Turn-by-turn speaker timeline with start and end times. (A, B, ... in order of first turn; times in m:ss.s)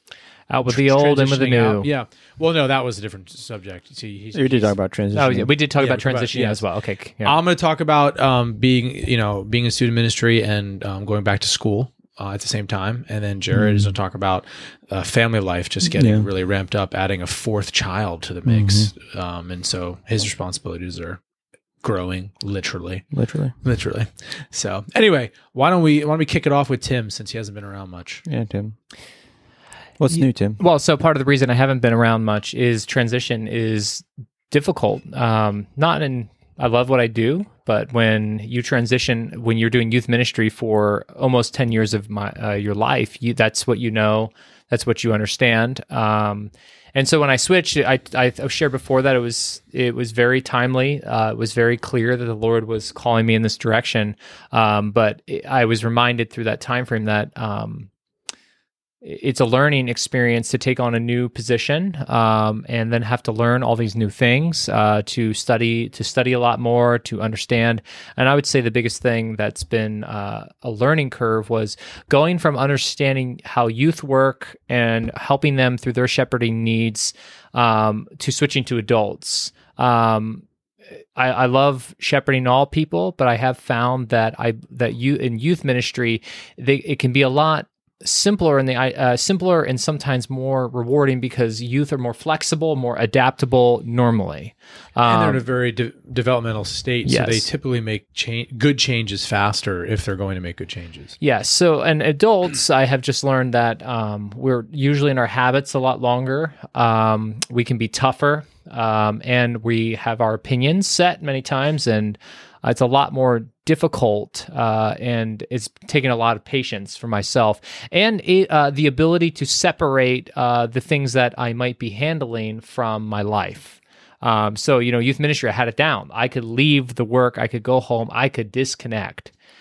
0:00.5-0:01.9 A
0:00.7-0:04.8 B
0:04.3-0:05.5 C
0:05.1-0:07.4 A
0:05.8-0:06.6 B
0:07.2-0:21.2 B
0:13.5-0:14.0 C
0:15.8-0:16.3 C
0:18.4-0:18.9 C
0:21.8-0:23.1 B
0:23.1-0:23.5 C
0:23.6-0:28.2 B
0:28.2-0:28.8 C
0:30.0-0:30.6 C
0:30.1-0:57.9 A
0:59.0-1:20.4 A
1:21.2-1:35.4 A
1:35.0-1:41.2 B
1:37.0-1:37.5 A
1:41.2-2:09.3 A